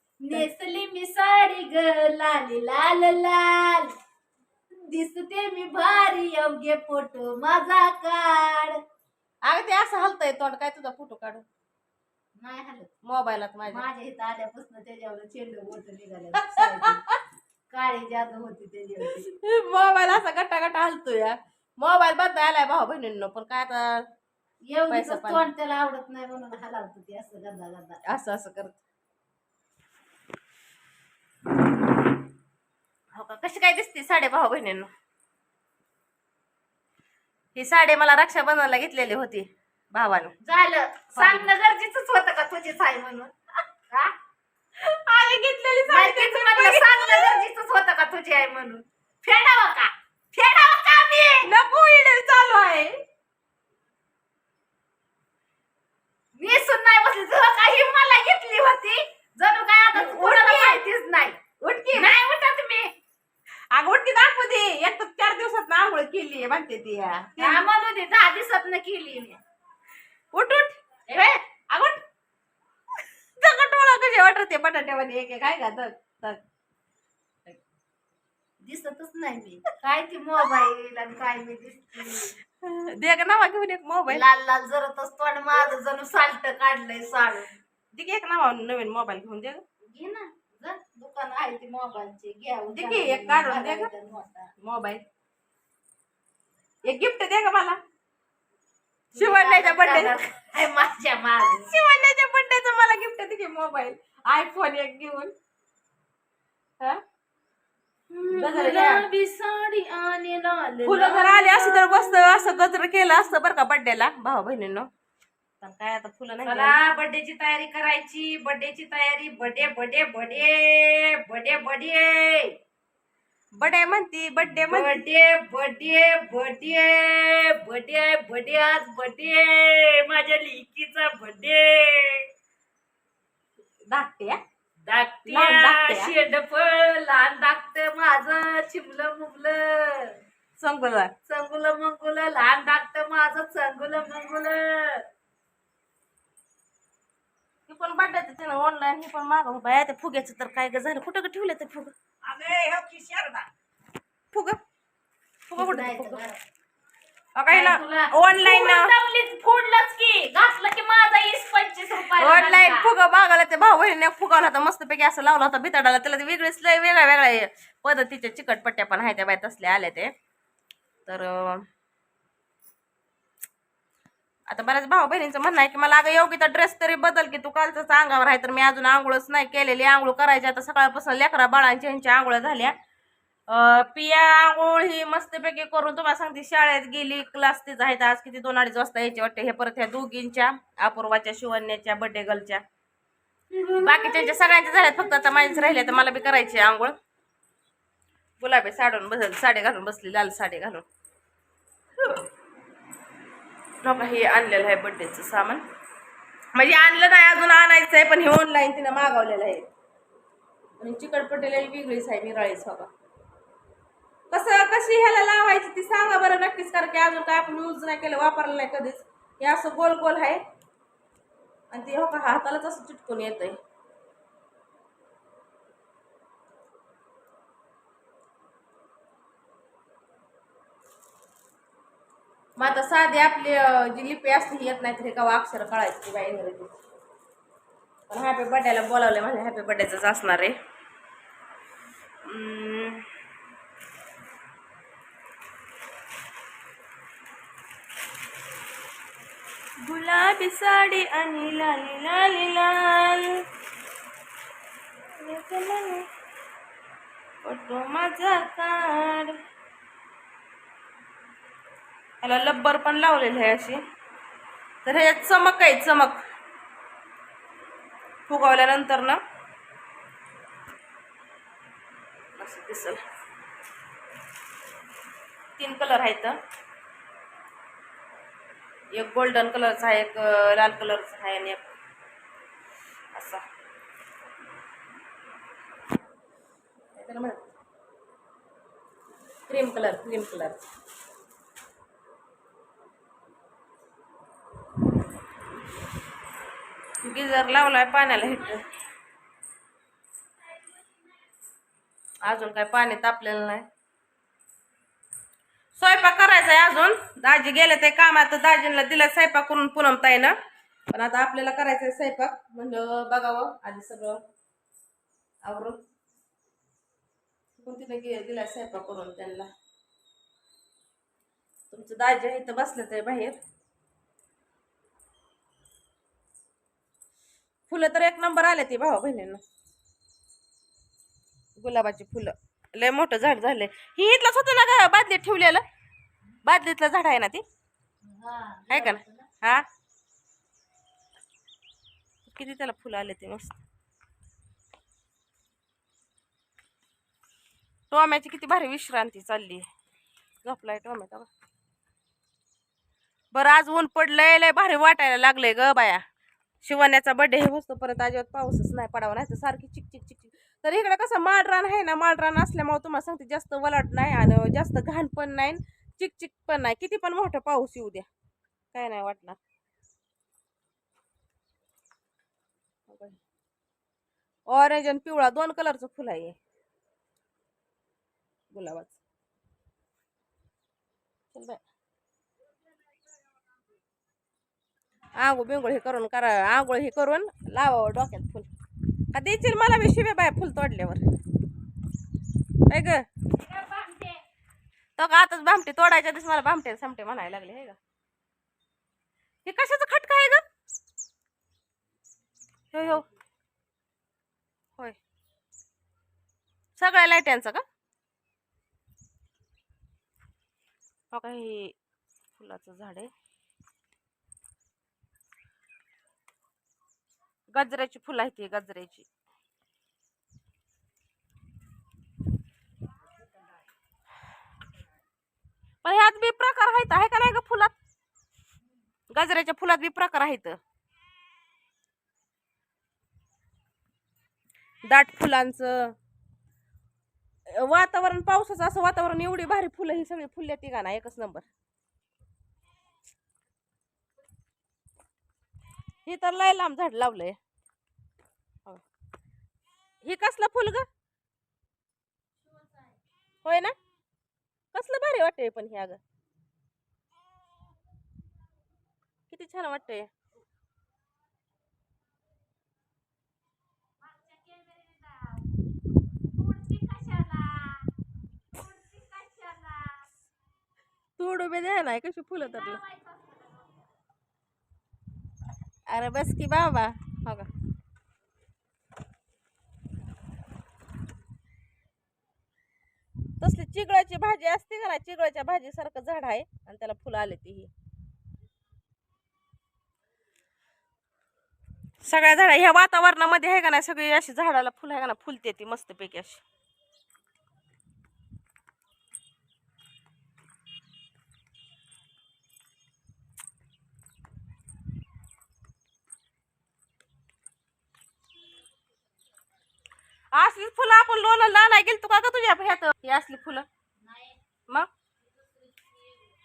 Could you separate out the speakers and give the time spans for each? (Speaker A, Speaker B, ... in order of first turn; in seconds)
Speaker A: 0.2-3.9, 4.8-8.8, 12.4-12.9, 13.7-17.0, 17.7-19.3, 24.7-28.0, 40.4-43.3, 43.9-44.1, 45.9-51.5, 56.4-61.4, 61.9-62.9, 67.4-69.4, 71.1-71.6, 78.6-82.3, 84.1-87.5, 89.9-94.5, 99.1-101.7, 108.1-113.0, 116.4-122.5, 124.7-132.3, 134.8-140.2, 141.3-145.0, 152.2-153.4, 155.6-156.4, 157.5-162.9, 193.5-194.3, 300.4-301.1, 338.0-339.3, 393.3-394.2, 452.5-452.9, 464.0-465.5, 466.3-467.9, 468.5-470.1, 472.4-473.8, 514.0-514.4, 515.8-516.1
Speaker B: 9.4-11.4, 13.0-13.8, 16.4-17.2, 19.1-24.0, 24.9-25.5, 28.0-28.8, 33.1-34.9, 37.5-40.3, 41.1-41.5, 44.8-47.4, 51.4-53.0, 59.9-60.8, 61.6-62.1, 63.7-67.6, 70.3-70.8, 71.7-72.0, 73.4-76.4, 82.6-84.2, 87.9-89.6, 92.8-93.9, 94.6-95.0, 96.8-97.8, 99.1-100.2, 101.5-105.3, 108.3-109.0, 110.8-114.9, 115.6-116.8, 123.6-125.0, 133.9-134.4, 135.3-136.1, 140.6-141.1, 147.7-151.9, 154.3-154.6, 155.5-156.2, 157.3-158.9, 162.2-170.1, 171.1-171.6, 174.5-182.7, 183.5-192.6, 193.8-196.9, 198.4-200.8, 202.0-202.2, 203.8-205.6, 206.5-209.7, 210.8-212.9, 214.3-220.4, 221.7-223.6, 232.6-236.8, 238.1-240.6, 242.2-243.0, 249.8-253.4, 255.2-256.1, 257.4-259.4, 262.2-263.8, 264.8-266.2, 268.3-269.2, 272.4-273.0, 275.6-276.4, 278.9-281.7, 283.1-283.4, 286.9-287.5, 289.5-290.6, 297.0-298.6, 302.2-303.6, 305.8-310.3, 310.9-314.2, 315.4-315.8, 317.6-319.5, 321.7-323.4, 327.7-329.4, 331.6-335.6, 336.4-337.4, 338.7-339.6, 342.2-343.6, 347.9-349.6, 350.4-351.3, 353.3-356.0, 356.6-368.1, 368.7-369.4, 372.9-373.2, 374.5-376.4, 378.5-379.0, 381.3-381.6, 385.2-388.5, 389.1-391.0, 392.7-393.0, 395.0-397.8, 399.4-400.4, 402.7-403.1, 406.8-407.6, 411.1-411.7, 412.4-413.1, 417.5-419.1, 425.8-427.7, 429.1-430.6, 434.9-435.9, 437.5-441.4, 446.1-447.4, 450.0-450.8, 453.4-453.7, 454.7-456.0, 459.3-460.1, 471.2-472.8, 475.9-477.5, 483.4-487.7, 492.0-496.4, 510.3-513.6